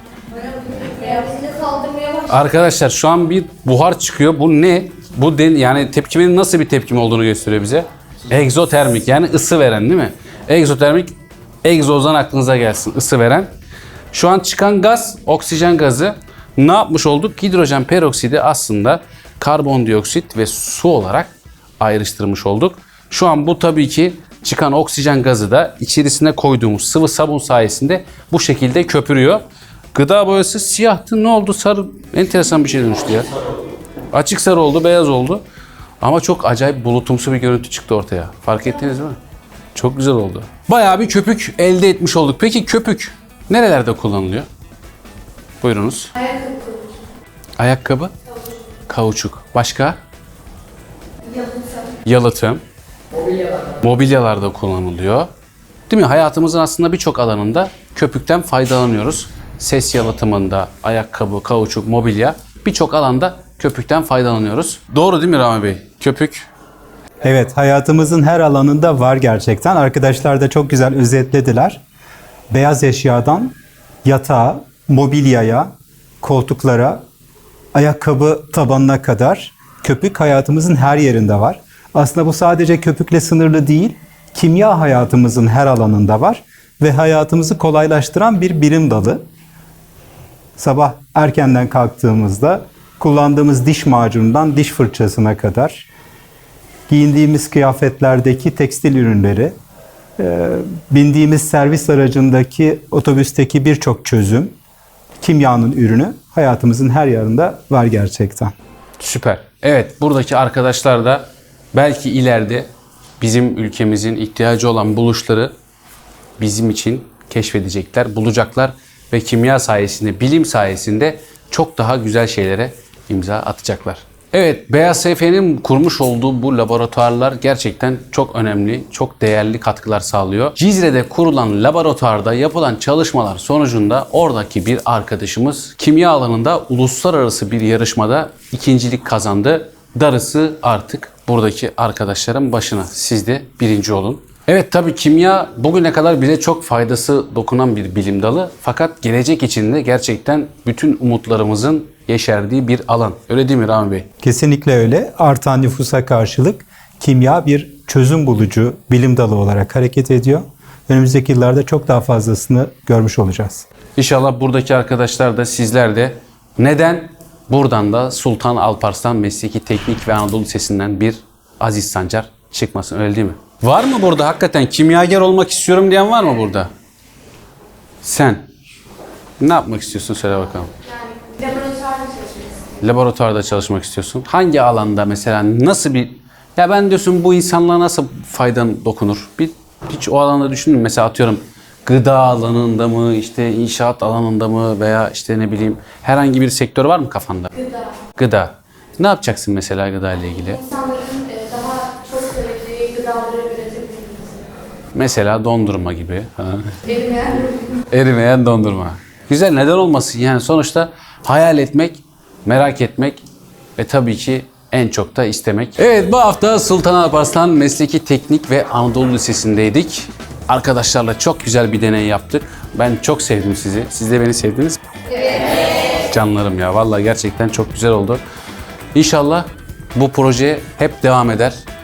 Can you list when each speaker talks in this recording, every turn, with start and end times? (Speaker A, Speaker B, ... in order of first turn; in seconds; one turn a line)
Speaker A: 0.5-2.2
Speaker B: 2.2-13.5
Speaker B: 14.1-29.4
Speaker B: 29.9-33.3
Speaker B: 34.1-35.4
Speaker B: 36.0-39.2
Speaker B: 39.8-44.5
Speaker B: 45.6-46.3
Speaker A: 46.3-46.8
Speaker B: 47.6-48.1
Speaker B: 48.9-50.0
Speaker B: 52.0-52.6
Speaker B: 53.7-55.3
Speaker B: 55.9-66.5
Speaker C: 67.2-71.8
Speaker C: 72.5-75.7
Speaker C: 76.2-77.0
Speaker C: 77.7-89.2
Speaker C: 90.6-95.9
Speaker C: 96.9-99.5
Speaker C: 100.2-104.6
Speaker C: 105.2-108.5
Speaker B: 109.0-112.7
Speaker B: 113.2-115.5
Speaker B: 116.4-154.1
Speaker C: 154.2-163.7
Speaker B: 164.0-176.7
Speaker B: 178.0-178.5
Speaker B: 179.4-180.7
Speaker A: 181.1-182.6
Speaker B: 182.8-200.7
Speaker A: 200.7-204.4
Speaker B: 204.9-213.2
Speaker B: 213.8-224.8
Speaker B: 226.1-228.2
Speaker B: 228.9-231.6